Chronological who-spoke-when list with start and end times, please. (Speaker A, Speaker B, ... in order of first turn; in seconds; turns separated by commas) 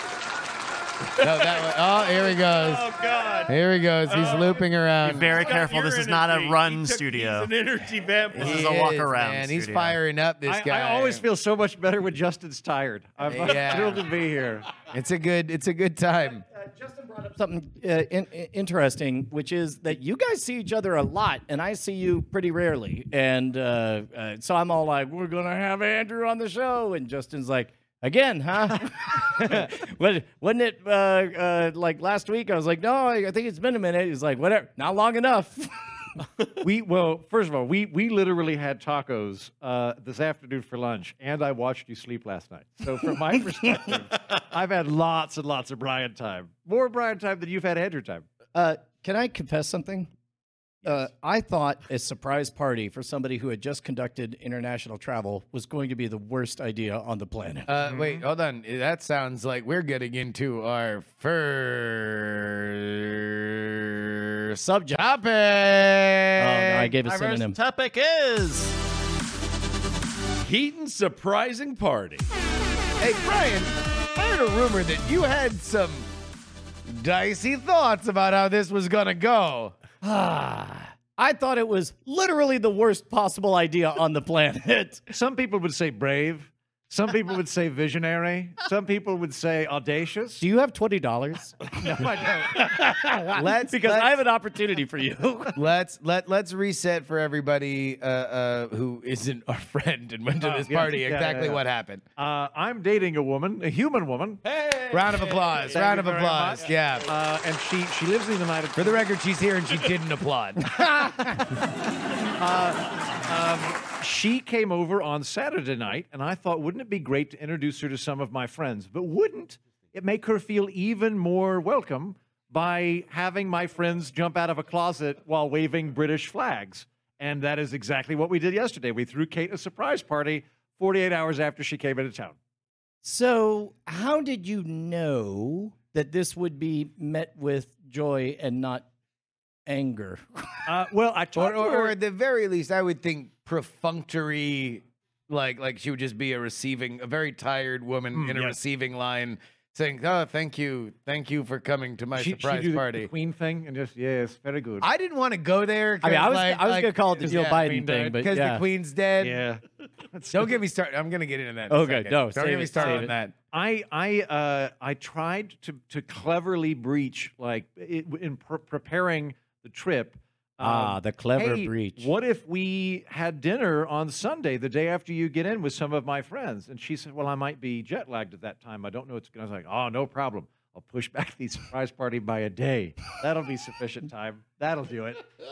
Speaker A: 1.2-2.9, Speaker B: 1.4-3.5, Speaker A: 3.5-5.4, Speaker B: 4.1-4.6, Speaker C: 5.0-7.5, Speaker B: 5.2-8.8, Speaker A: 8.3-11.2, Speaker C: 8.3-10.0, Speaker D: 10.5-14.7, Speaker A: 13.3-14.1, Speaker A: 14.9-16.4, Speaker E: 16.4-36.2, Speaker D: 36.6-48.2, Speaker E: 43.6-43.9, Speaker E: 48.5-50.1, Speaker E: 50.8-57.7, Speaker A: 57.7-66.9, Speaker D: 57.9-58.2, Speaker E: 64.6-65.0, Speaker E: 66.4-67.6, Speaker C: 67.0-68.8, Speaker B: 70.4-72.3, Speaker A: 73.0-76.1, Speaker A: 76.9-79.8, Speaker E: 80.0-85.0, Speaker D: 85.1-90.4, Speaker E: 90.4-91.8, Speaker D: 91.7-92.7, Speaker E: 92.5-95.6, Speaker A: 93.3-94.2, Speaker A: 95.5-102.0, Speaker D: 100.4-101.6, Speaker D: 102.2-104.4, Speaker B: 104.5-104.9, Speaker A: 104.9-107.1, Speaker D: 105.6-109.1, Speaker A: 108.8-110.8, Speaker E: 110.8-111.3, Speaker D: 112.4-132.4, Speaker E: 133.0-138.9, Speaker E: 139.7-140.6, Speaker D: 140.7-141.9, Speaker A: 141.3-153.1, Speaker D: 148.1-148.6, Speaker D: 152.2-154.9, Speaker A: 154.8-159.4, Speaker E: 156.0-158.6, Speaker D: 157.2-158.2, Speaker D: 159.2-160.6, Speaker A: 160.3-163.3, Speaker E: 161.7-163.1, Speaker D: 162.8-185.3, Speaker E: 170.6-172.1